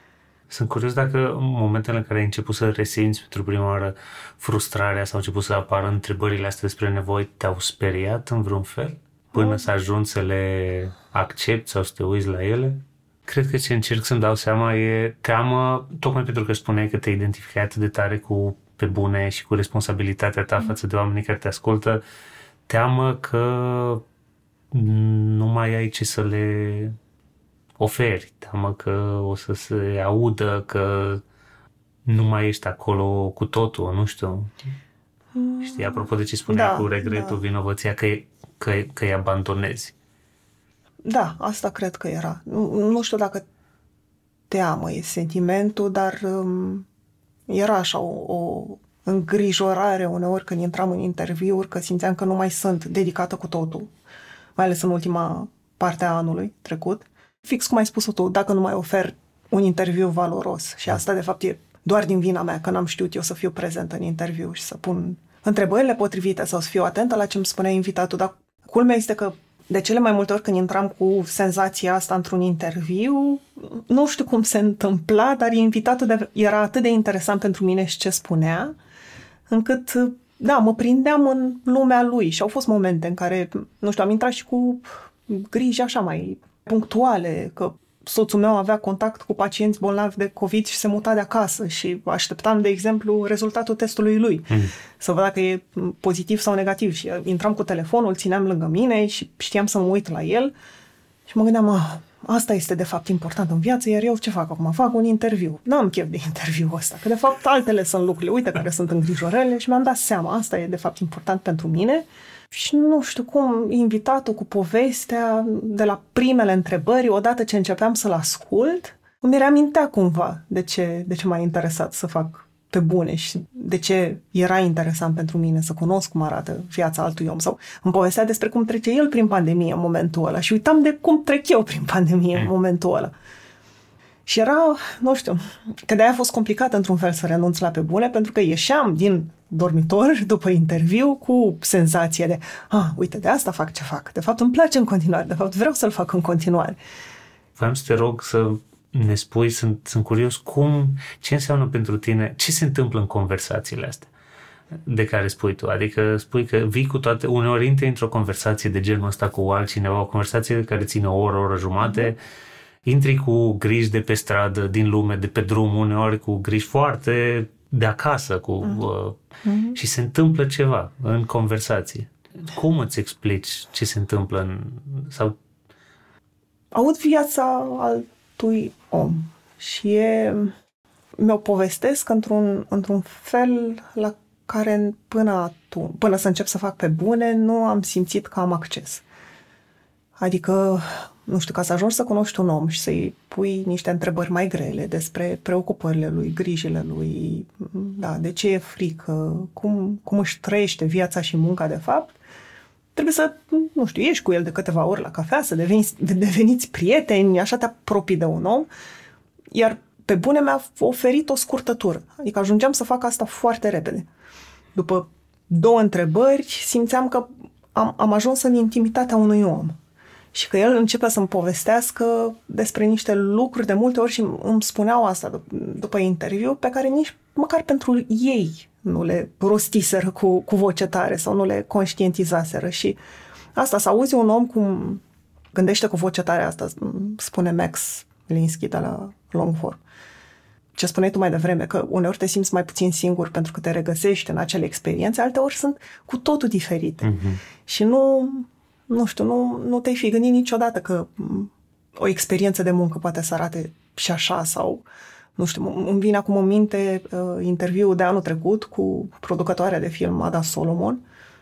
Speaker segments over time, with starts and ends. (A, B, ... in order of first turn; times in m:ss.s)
0:00.5-0:22.0 A
0:09.3-0:09.6 B
0:22.7-0:24.0 A
0:24.7-0:27.0 A
0:27.8-0:31.2 A
0:32.0-0:34.5 A
0:35.3-0:37.4 B
0:35.6-0:39.9 A
0:41.0-0:43.4 B
0:44.5-0:46.8 B
0:47.5-0:53.9 B
0:54.6-1:18.7 B
1:19.5-1:40.5 B
1:41.3-2:13.1 B
2:14.2-2:26.8 B
2:27.6-2:34.1 A
2:34.7-2:42.2 A
2:42.8-2:49.2 A
2:49.4-2:49.8 B
2:49.7-2:55.4 A
2:56.7-3:00.5 B
3:01.2-3:09.0 B
3:10.2-3:22.1 B
3:22.9-3:28.7 B
3:29.5-3:34.1 B
3:34.7-3:39.8 B
3:40.3-3:53.0 B
3:53.6-3:55.0 B
3:55.5-3:59.8 B
4:00.8-4:14.8 B
4:07.0-4:07.4 A
4:15.4-4:21.0 B